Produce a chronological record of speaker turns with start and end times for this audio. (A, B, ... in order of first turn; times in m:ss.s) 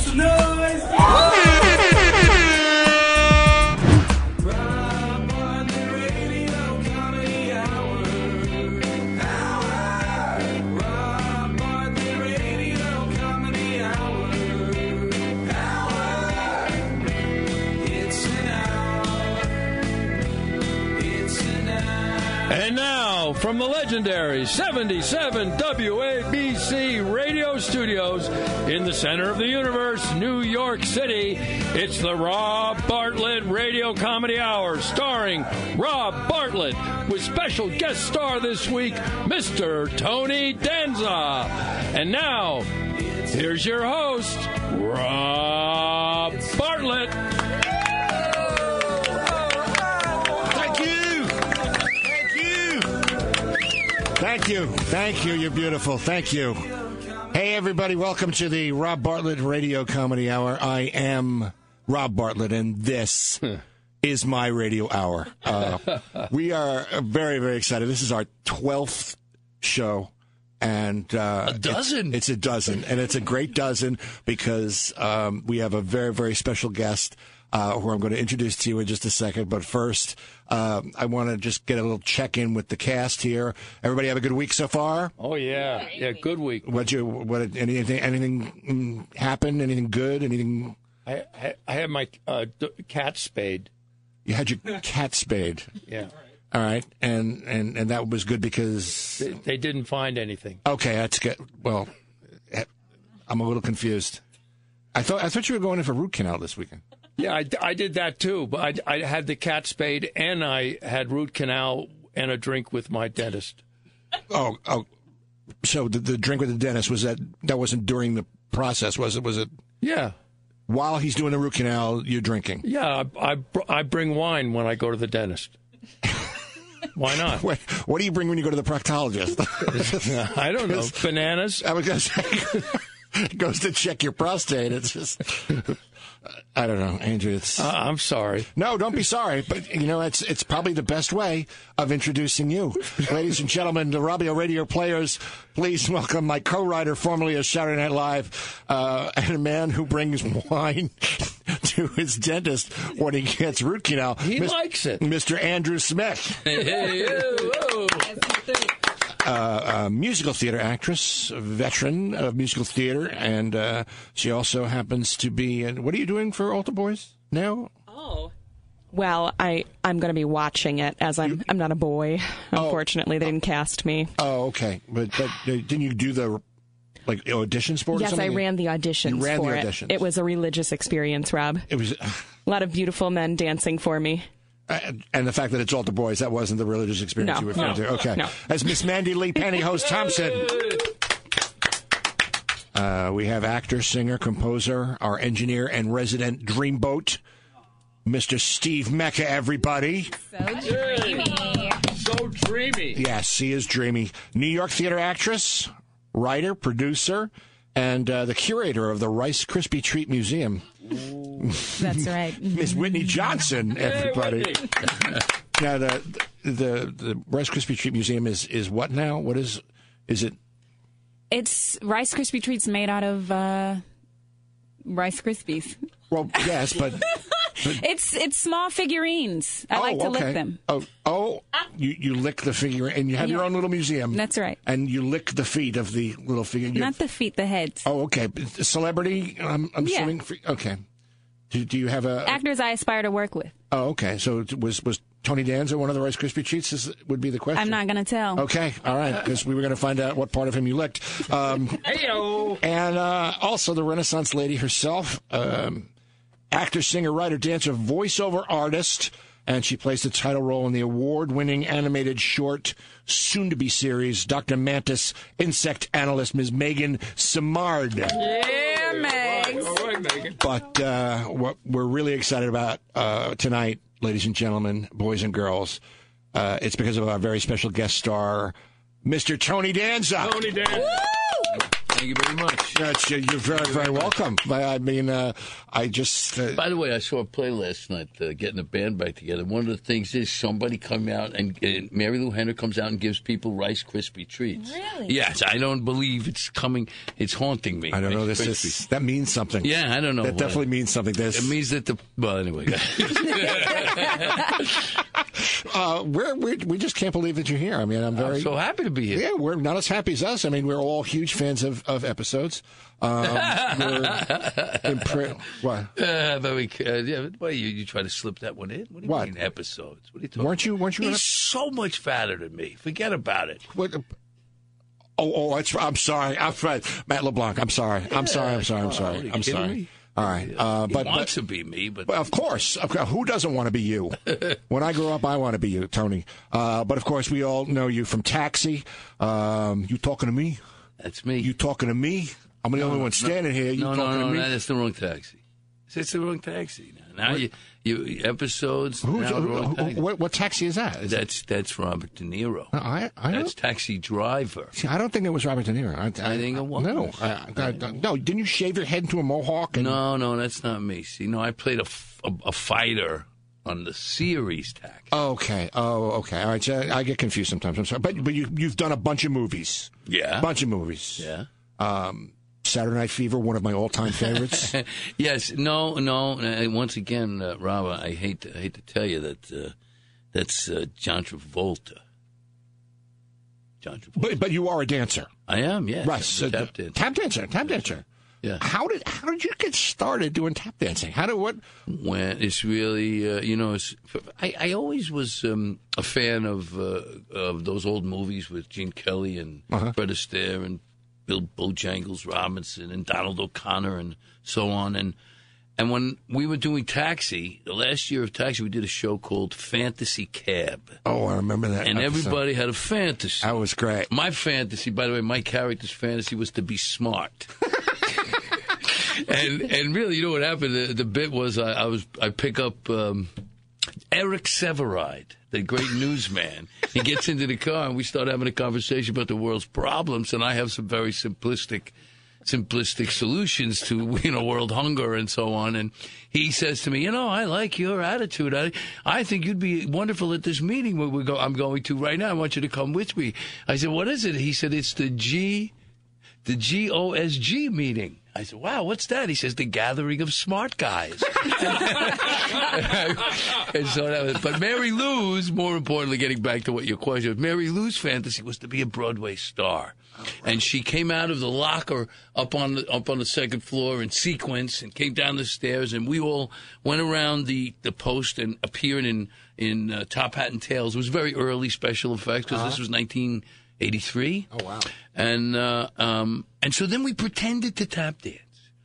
0:22.5-0:42.7 A
0:43.3-0:47.1 A
0:50.3-0:53.1 B
0:54.1-0:56.7 B
0:57.3-1:03.5 B
1:04.0-1:25.1 B
1:11.4-1:12.2 C
1:25.2-1:26.6 A
1:26.6-1:30.8 B
1:31.1-1:33.7 A
1:34.2-1:35.7 B
1:36.5-1:39.3 B
1:39.2-1:40.6 A
1:40.6-1:41.9 B
1:43.3-1:44.2 B
1:44.9-1:46.8 B
1:47.2-1:53.6 A
1:54.3-1:54.9 B
1:55.6-1:59.5 B
1:59.8-2:00.1 A
2:00.7-2:02.7 B
2:02.7-2:05.5 A
2:07.0-2:07.4 A
2:07.2-2:11.0 B
2:10.2-2:11.6 A
2:11.6-2:15.8 B
2:16.5-2:17.7 B
2:17.6-2:18.5 A
2:18.5-2:36.8 B
2:36.4-2:38.2 C
2:39.2-2:47.7 B
2:48.9-2:54.2 D
2:52.5-2:52.8 B
2:54.2-2:56.4 B
2:57.0-2:58.5 B
2:57.9-3:01.7 D
2:59.0-3:00.1 B
3:01.7-3:02.3 B
3:02.5-3:04.3 D
3:04.7-3:10.8 B
3:07.2-3:08.5 D
3:12.7-3:17.2 B
3:18.0-3:20.2 B
3:20.4-3:21.8 E
3:20.6-3:23.0 A
3:22.9-3:30.7 B
3:31.4-3:34.9 B
3:31.8-3:33.2 E
3:33.8-3:34.6 A
3:35.5-3:40.4 B
3:41.3-3:43.8 E
3:44.8-3:45.8 E
3:46.1-3:47.0 B
3:47.6-3:50.6 E
3:49.7-3:57.0 B
3:53.2-3:53.5 E
3:54.1-3:54.6 E
3:56.7-3:57.9 E
3:57.8-4:00.8 B
3:59.8-4:00.1 E
4:01.5-4:02.4 B
4:02.2-4:03.5 E
4:03.7-4:07.8 B
4:07.5-4:08.5 E
4:08.3-4:15.9 B
4:16.5-4:28.2 B
4:28.2-4:29.9 E
4:29.6-4:30.2 A
4:30.4-4:35.8 B
4:36.3-4:40.9 B
4:41.8-4:42.8 C
4:42.7-4:46.6 B
4:46.5-4:58.8 C
4:57.9-5:01.6 B
4:59.6-5:00.7 C
5:01.3-5:04.6 C
5:03.3-5:04.1 B
5:05.3-5:08.5 B
5:08.2-5:09.3 C
5:09.1-5:15.9 B
5:13.2-5:15.3 C
5:16.0-5:23.7 C
5:19.0-5:19.3 B
5:20.4-5:21.3 B
5:23.7-5:24.0 B
5:25.2-5:31.3 B
5:28.1-5:32.1 C
5:32.1-5:40.6 B
5:41.0-5:41.5 C
5:41.4-5:44.5 B
5:42.8-5:50.0 C
5:49.0-5:51.2 B
5:51.1-5:52.7 C
5:52.7-5:53.5 B
5:53.3-5:54.7 C
5:54.7-6:00.0 B
5:56.2-5:57.9 C
5:59.7-6:05.1 C
6:05.1-6:14.7 B
6:10.1-6:10.5 C
6:11.2-6:11.5 C
6:14.3-6:19.7 C
6:20.3-6:22.0 C
6:23.8-6:24.3 C
6:24.2-6:25.3 B
6:25.5-6:27.0 C
6:26.0-6:28.0 B
6:28.6-6:31.6 B
6:31.9-6:45.2 C
6:45.8-6:51.0 C
6:51.0-6:52.4 B
6:51.8-6:53.5 C
6:53.4-6:54.1 B
6:54.1-6:57.5 C
6:58.9-7:03.3 C
7:04.1-7:25.7 C
7:26.4-7:54.5 C
7:52.5-7:52.8 B
7:54.5-7:54.9 B
7:55.1-7:58.6 C